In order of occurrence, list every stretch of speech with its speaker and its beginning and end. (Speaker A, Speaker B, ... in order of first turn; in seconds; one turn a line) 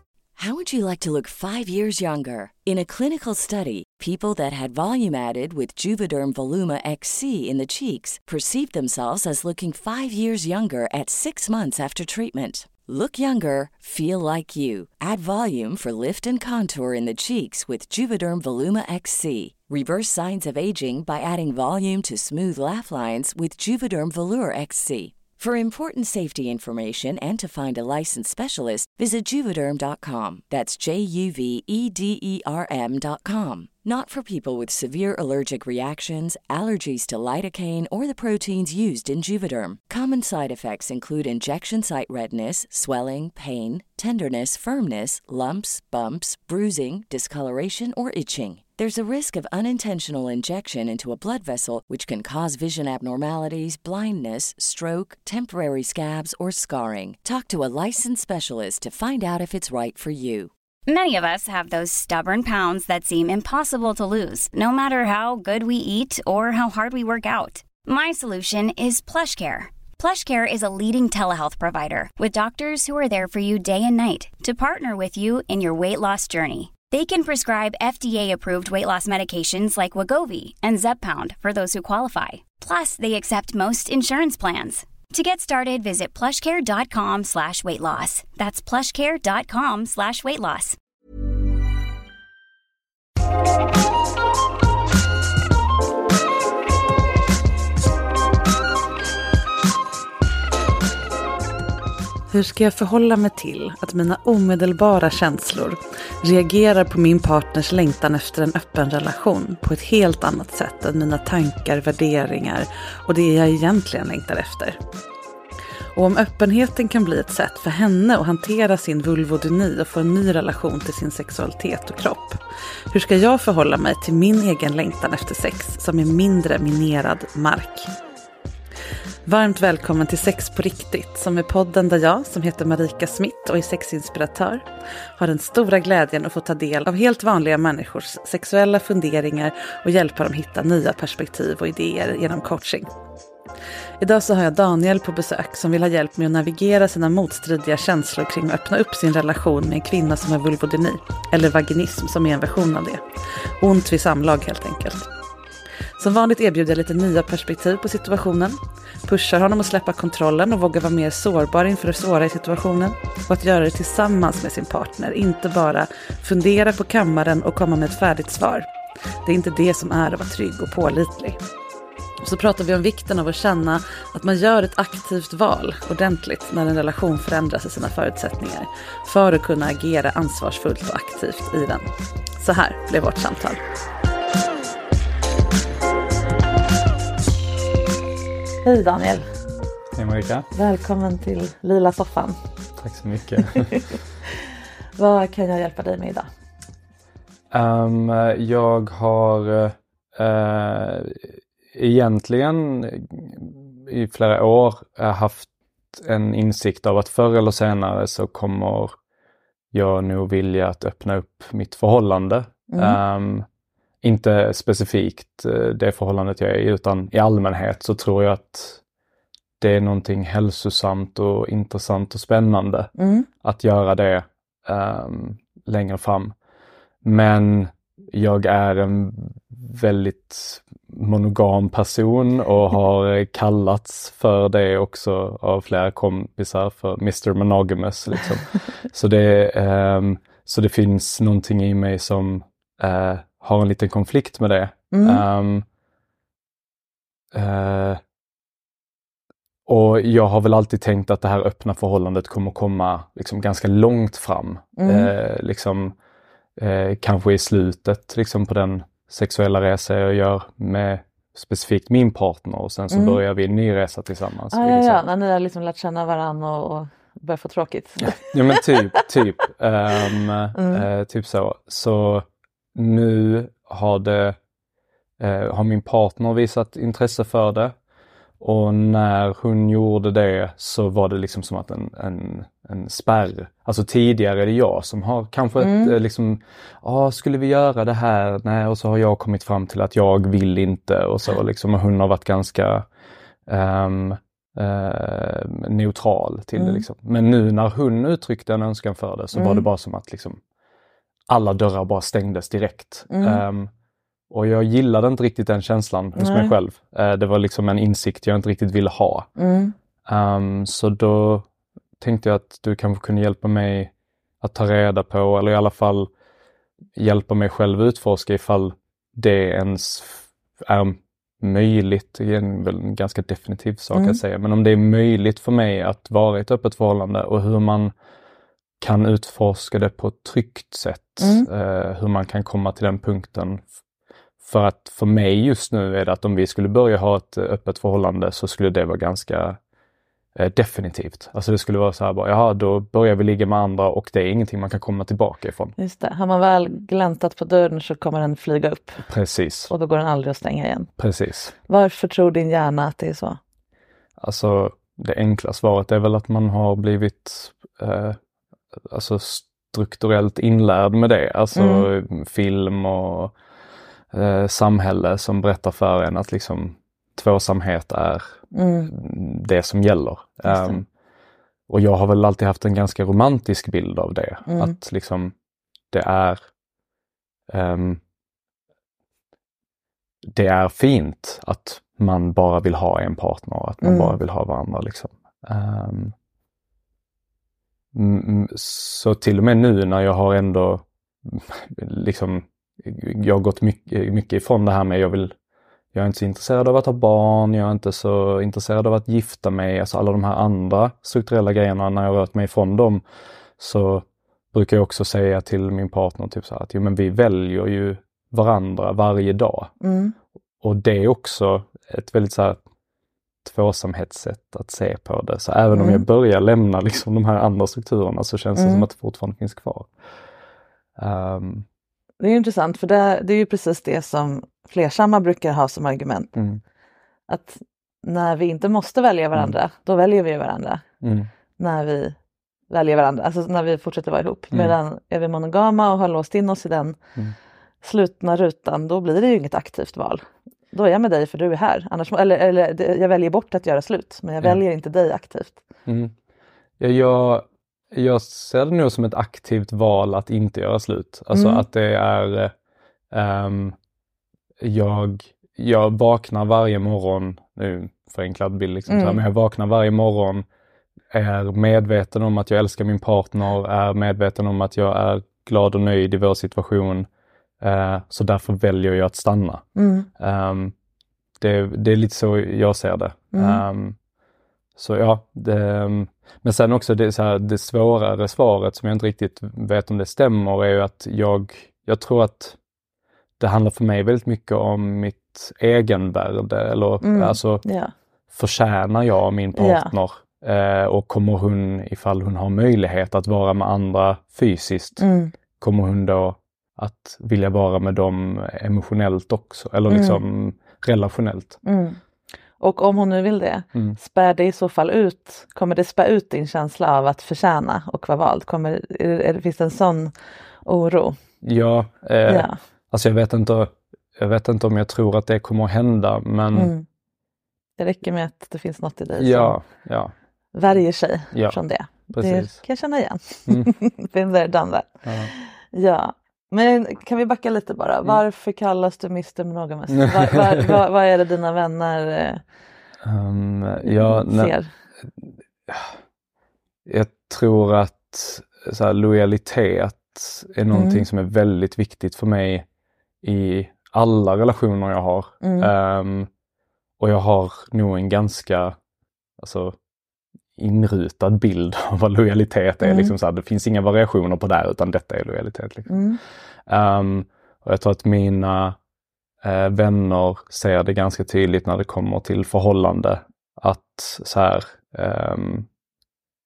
Speaker A: 0.4-60.5
Speaker B: 60.9-90.8
Speaker C: 102.3-114.8
Speaker C: 116.0-122.4
Speaker C: 122.9-127.9
Speaker C: 129.3-134.7
Speaker C: 135.2-142.9
Speaker C: 144.0-153.0
Speaker C: 153.6-155.1
Speaker C: 156.0-168.7
Speaker C: 169.2-171.4
Speaker C: 172.2-183.6
Speaker C: 188.6-189.3
Speaker D: 190.0-190.5
Speaker C: 190.6-192.4
Speaker D: 192.8-193.8
Speaker C: 193.4-196.3
Speaker D: 197.5-208.9
Speaker D: 209.7-213.5
Speaker C: 212.7-213.0
Speaker D: 214.0-218.8
Speaker D: 219.6-226.3
Speaker C: 223.0-223.3
Speaker D: 227.0-245.7
Speaker C: 244.9-245.2
Speaker D: 247.3-248.0
Speaker D: 249.7-255.9
Speaker C: 254.8-255.1
Speaker D: 256.6-265.0
Speaker C: 262.9-263.2
Speaker C: 264.5-269.0
Speaker D: 268.0-274.4
Speaker C: 270.0-270.9
Speaker D: 275.2-277.8
Speaker D: 278.4-292.9
Speaker C: 285.6-285.9
Speaker D: 293.5-300.4
Speaker C: 296.6-296.8
Speaker C: 299.3-299.7
Speaker D: 301.3-303.7
Speaker C: 303.1-303.4
Speaker D: 304.3-309.3
Speaker C: 306.2-306.6
Speaker C: 309.4-309.7
Speaker D: 310.1-311.5
Speaker D: 312.0-316.1
Speaker D: 317.0-327.9
Speaker C: 323.9-324.2
Speaker D: 328.8-333.7
Speaker C: 331.2-331.5
Speaker D: 334.4-339.6
Speaker D: 340.4-345.8
Speaker C: 345.8-349.1
Speaker D: 349.1-349.7
Speaker C: 349.7-350.9
Speaker D: 351.0-351.5
Speaker C: 351.7-353.4
Speaker D: 354.2-358.2
Speaker D: 358.8-363.4
Speaker C: 361.6-361.9
Speaker D: 364.1-370.9
Speaker C: 368.5-368.9
Speaker C: 370.5-370.8
Speaker D: 371.7-375.3
Speaker C: 374.5-374.8
Speaker D: 375.9-376.4
Speaker D: 377.5-378.0
Speaker D: 380.3-386.1
Speaker C: 383.8-384.2
Speaker D: 387.9-395.4
Speaker D: 395.9-403.0
Speaker D: 403.6-409.7
Speaker C: 409.8-410.1
Speaker D: 410.6-412.6
Speaker D: 413.4-419.9
Speaker C: 415.7-416.0
Speaker C: 418.6-418.9
Speaker D: 421.0-421.7
Speaker C: 422.2-426.3
Speaker D: 426.4-426.6
Speaker C: 427.3-430.8
Speaker D: 431.0-431.3
Speaker C: 431.6-432.2
Speaker C: 432.7-437.0
Speaker C: 437.8-445.6
Speaker D: 445.9-446.1
Speaker D: 446.8-452.5
Speaker C: 451.3-451.6
Speaker D: 453.1-453.8
Speaker D: 454.6-460.5
Speaker C: 458.9-459.2
Speaker D: 461.1-467.1
Speaker D: 467.6-469.6
Speaker C: 469.8-470.1
Speaker D: 470.2-470.7
Speaker D: 471.4-474.0
Speaker C: 473.3-473.6
Speaker D: 474.8-482.6
Speaker D: 483.4-487.6
Speaker C: 487.0-487.9
Speaker D: 488.3-495.1
Speaker C: 489.6-489.9
Speaker C: 495.0-495.3
Speaker D: 495.6-501.6
Speaker C: 499.9-500.2
Speaker C: 501.6-502.0
Speaker C: 502.6-510.1
Speaker C: 510.7-511.2
Speaker D: 511.4-516.7
Speaker C: 512.3-512.6
Speaker C: 516.5-516.9
Speaker C: 517.8-519.6
Speaker D: 519.2-520.1
Speaker C: 520.5-532.4
Speaker D: 521.3-522.6
Speaker D: 525.0-525.3
Speaker D: 530.0-530.7
Speaker D: 533.0-534.6
Speaker C: 533.9-534.7
Speaker D: 535.2-535.9
Speaker D: 536.9-542.6
Speaker C: 540.7-541.1
Speaker D: 543.2-546.3
Speaker C: 545.4-545.7
Speaker D: 547.0-548.8
Speaker D: 549.4-549.8
Speaker D: 550.6-556.0
Speaker C: 552.8-553.1
Speaker C: 555.9-556.2
Speaker D: 556.7-558.8
Speaker D: 559.4-565.7